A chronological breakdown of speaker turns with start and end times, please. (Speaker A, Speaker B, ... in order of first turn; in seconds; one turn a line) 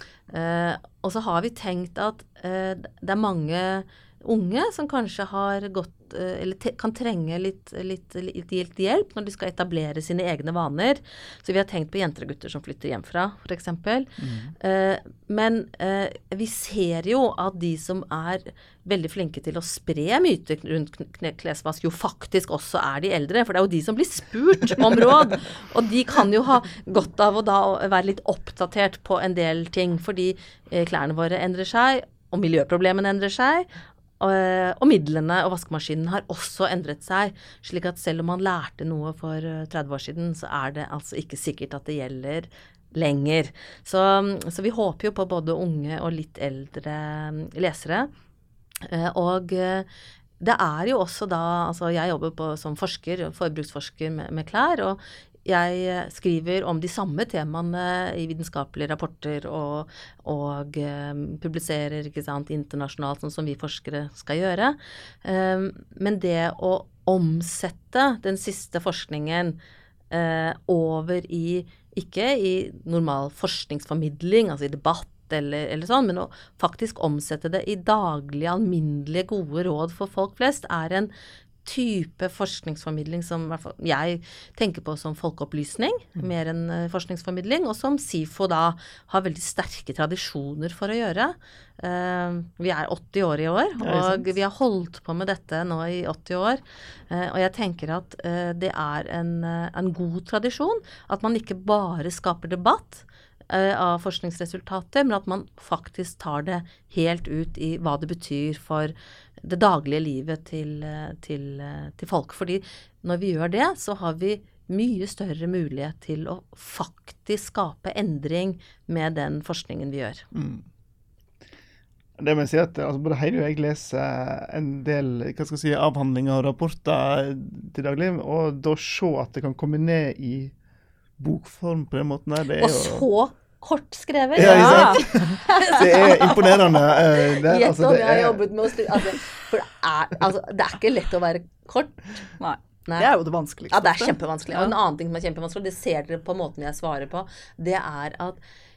Speaker A: 0.3-33.7
Speaker B: 14.2-14.5
Speaker A: 34.2-48.1
Speaker A: 48.8-49.9
Speaker A: 50.4-69.6
Speaker A: 70.1-81.1
Speaker A: 81.6-120.2
Speaker B: 93.8-94.3
Speaker B: 120.3-120.7
Speaker B: 122.2-130.5
Speaker B: 131.2-133.1
Speaker A: 132.6-142.1
Speaker B: 134.3-139.1
Speaker C: 134.4-135.1
Speaker C: 142.4-144.7
Speaker A: 143.7-148.4